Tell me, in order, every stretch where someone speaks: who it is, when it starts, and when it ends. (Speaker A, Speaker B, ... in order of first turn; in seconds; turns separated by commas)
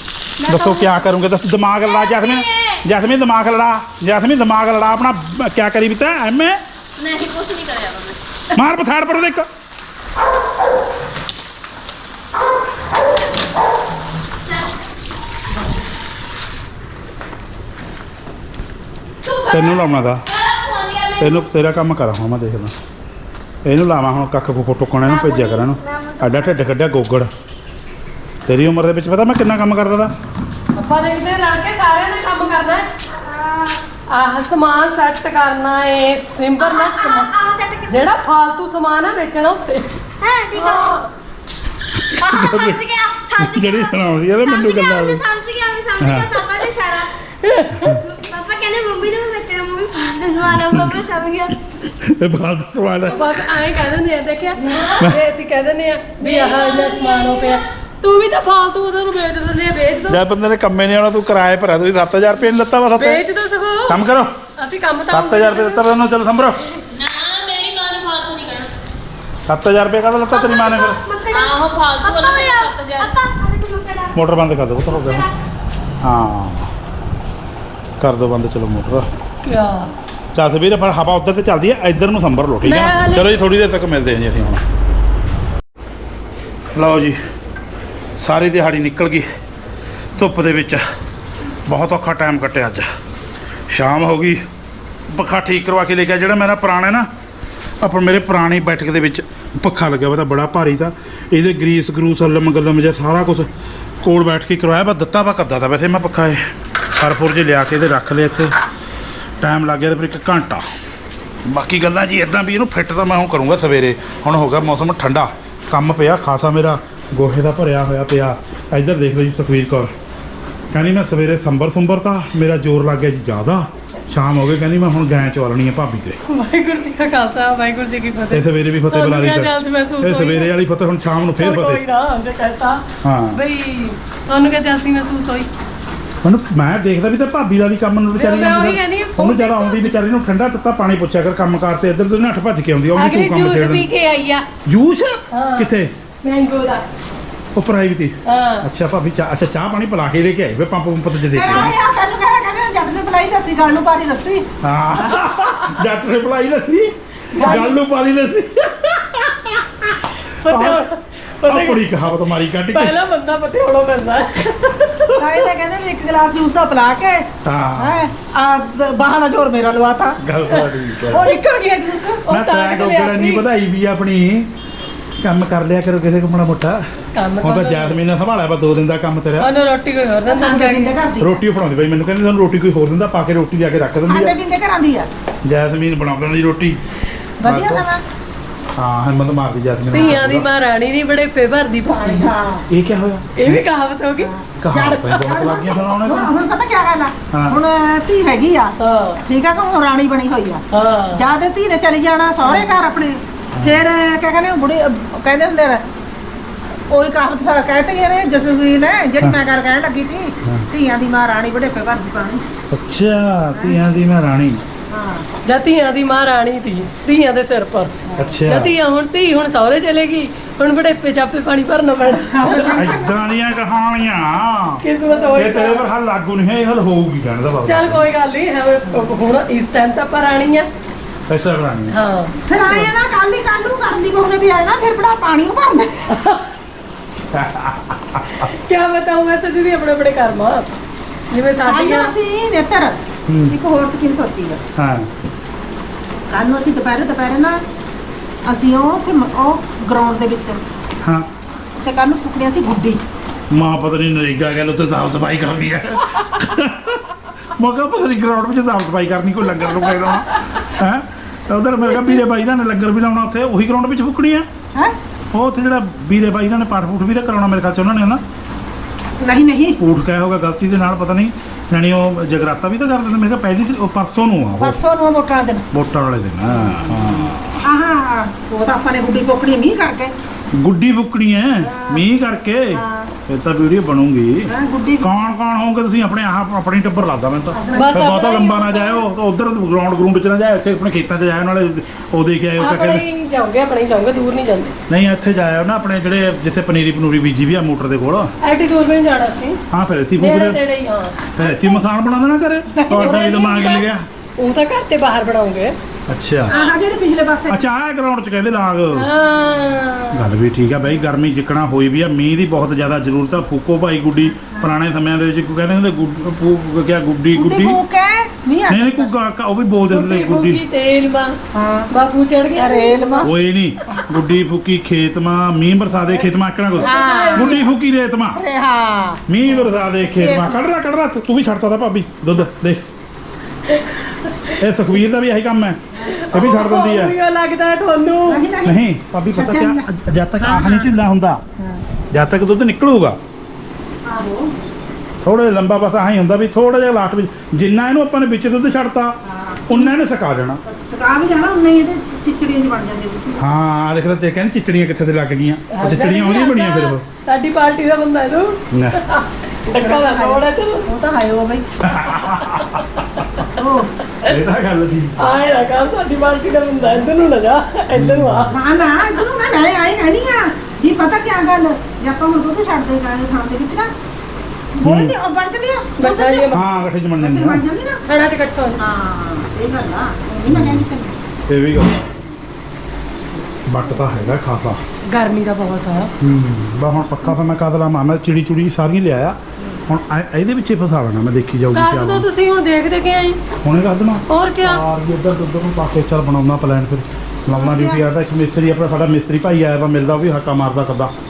Speaker A: 0.4-1.0, Speaker B: 0.5-6.6, Speaker C: 2.0-2.7, Speaker C: 7.0-8.2, Speaker B: 8.5-9.5, Speaker C: 19.2-21.5, Speaker B: 19.5-20.2, Speaker B: 21.2-22.8, Speaker B: 23.6-27.3, Speaker D: 25.1-26.6, Speaker B: 28.5-30.1, Speaker A: 30.8-32.9, Speaker D: 33.1-33.8, Speaker A: 34.1-37.3, Speaker D: 36.6-38.0, Speaker A: 37.9-39.9, Speaker D: 40.2-41.0, Speaker A: 40.5-41.1, Speaker B: 42.0-42.8, Speaker D: 42.2-47.2, Speaker B: 43.4-45.2, Speaker B: 46.0-46.4, Speaker A: 47.4-48.0, Speaker D: 48.0-51.6, Speaker B: 50.5-51.0, Speaker A: 50.5-51.1, Speaker B: 51.8-53.3, Speaker A: 53.1-60.2, Speaker C: 54.6-55.1, Speaker C: 56.2-57.6, Speaker B: 60.1-63.2, Speaker A: 63.0-64.0, Speaker B: 63.9-64.3, Speaker A: 64.6-65.8, Speaker B: 65.1-66.6, Speaker C: 66.9-68.7, Speaker B: 69.5-71.0, Speaker D: 70.3-74.2, Speaker C: 71.3-73.1, Speaker B: 74.2-75.3, Speaker D: 75.0-75.3, Speaker B: 76.0-76.7, Speaker B: 78.0-79.1, Speaker A: 79.4-79.9, Speaker B: 80.3-84.6, Speaker A: 82.6-83.3, Speaker B: 86.8-87.2, Speaker B: 88.2-89.3, Speaker B: 90.2-90.8, Speaker B: 91.7-92.9, Speaker B: 93.7-94.4, Speaker B: 95.1-97.1, Speaker B: 97.8-103.5, Speaker B: 104.0-106.4, Speaker B: 107.0-108.5, Speaker B: 109.4-110.6, Speaker B: 111.5-119.9, Speaker B: 120.7-126.2, Speaker A: 126.3-130.5, Speaker B: 128.3-131.8, Speaker A: 131.3-135.5, Speaker B: 133.0-133.4, Speaker B: 136.2-143.9, Speaker A: 138.2-139.9, Speaker A: 143.0-144.5, Speaker B: 144.7-145.9, Speaker A: 145.3-145.7, Speaker A: 146.2-146.9, Speaker B: 147.6-151.7, Speaker A: 148.2-148.7, Speaker E: 151.3-154.4, Speaker B: 154.6-159.6, Speaker E: 157.3-157.8, Speaker A: 160.4-161.9, Speaker B: 160.5-160.8, Speaker B: 161.4-163.0, Speaker A: 162.7-165.2, Speaker E: 165.2-170.2, Speaker B: 167.4-168.1, Speaker B: 170.2-171.3, Speaker E: 171.1-172.2, Speaker A: 172.2-173.5, Speaker B: 172.3-174.5, Speaker B: 175.2-176.8, Speaker A: 177.1-178.0, Speaker B: 177.4-179.5, Speaker A: 179.4-181.0, Speaker E: 180.3-181.4, Speaker B: 181.2-184.3, Speaker E: 184.1-185.1, Speaker B: 185.4-186.8, Speaker E: 187.4-188.0, Speaker B: 187.4-187.9, Speaker B: 188.8-190.5, Speaker A: 189.9-192.3, Speaker E: 192.0-192.7, Speaker B: 192.7-193.6, Speaker A: 193.4-194.3, Speaker B: 194.6-196.3, Speaker E: 194.7-198.7, Speaker A: 194.9-195.3, Speaker B: 197.3-197.6, Speaker A: 198.8-199.2, Speaker E: 199.3-205.8, Speaker A: 200.7-201.3, Speaker A: 202.5-202.7, Speaker B: 203.6-203.8, Speaker E: 206.9-212.5, Speaker B: 212.7-214.6, Speaker E: 213.5-213.8, Speaker E: 214.9-215.3, Speaker A: 215.5-217.9, Speaker E: 218.1-218.4, Speaker B: 218.2-218.7, Speaker A: 218.4-222.9, Speaker E: 222.3-223.2, Speaker B: 222.7-224.8, Speaker A: 224.8-225.8, Speaker B: 225.3-228.1, Speaker A: 227.7-230.7, Speaker B: 231.3-232.0, Speaker A: 231.9-232.9, Speaker E: 232.5-236.0, Speaker A: 236.1-236.4, Speaker B: 237.3-238.5, Speaker A: 238.4-240.7, Speaker A: 241.3-242.1, Speaker E: 241.7-244.6, Speaker B: 243.3-243.6, Speaker B: 244.8-245.1, Speaker E: 246.3-247.6, Speaker E: 248.5-250.6, Speaker E: 251.8-253.0, Speaker B: 253.5-264.5, Speaker B: 265.3-268.2, Speaker E: 269.2-269.8, Speaker B: 269.8-274.8, Speaker E: 274.6-275.7, Speaker B: 275.7-277.6, Speaker E: 276.5-280.1, Speaker B: 280.5-293.1, Speaker E: 281.7-282.0, Speaker E: 282.7-283.1, Speaker E: 284.5-285.4, Speaker E: 287.5-288.2, Speaker A: 287.8-289.1, Speaker A: 292.6-294.8, Speaker B: 294.9-298.3, Speaker A: 298.4-299.6, Speaker B: 299.7-300.6, Speaker A: 300.2-301.7, Speaker B: 301.4-304.0, Speaker E: 302.7-303.4, Speaker A: 303.0-303.9, Speaker A: 304.4-305.8, Speaker B: 306.1-306.6, Speaker E: 306.5-307.6, Speaker B: 307.5-309.1, Speaker A: 308.9-310.3, Speaker B: 310.1-317.8, Speaker E: 314.4-314.7, Speaker E: 317.4-319.1, Speaker B: 318.7-320.6, Speaker A: 319.9-321.4, Speaker E: 321.5-321.9, Speaker A: 321.9-323.2, Speaker E: 322.6-323.3, Speaker B: 323.2-328.4, Speaker A: 326.8-327.7, Speaker E: 326.8-327.6, Speaker E: 328.3-330.7, Speaker B: 329.3-332.8, Speaker B: 334.6-335.8, Speaker E: 336.1-336.4, Speaker A: 336.1-338.4, Speaker B: 336.3-337.1, Speaker E: 338.3-340.9, Speaker B: 338.6-341.4, Speaker B: 342.1-343.2, Speaker E: 344.1-344.5, Speaker B: 345.2-349.2, Speaker E: 349.3-349.9, Speaker B: 349.7-350.6, Speaker E: 350.6-353.5, Speaker B: 353.4-357.0, Speaker A: 355.7-360.9, Speaker B: 358.7-359.0, Speaker E: 359.7-361.7, Speaker B: 361.8-363.4, Speaker E: 363.6-363.9, Speaker B: 364.2-365.3, Speaker A: 365.2-368.5, Speaker B: 367.9-368.5, Speaker E: 368.5-373.9, Speaker E: 374.8-376.6, Speaker B: 374.8-375.2, Speaker A: 376.0-376.8, Speaker B: 376.5-377.6, Speaker E: 377.2-378.0, Speaker A: 378.1-378.8, Speaker E: 378.8-381.2, Speaker B: 380.5-380.9, Speaker B: 381.5-382.0, Speaker B: 383.7-384.8, Speaker A: 385.1-386.1, Speaker B: 386.2-392.3, Speaker A: 391.7-393.4, Speaker B: 393.6-401.1, Speaker A: 394.3-394.8, Speaker E: 397.5-398.0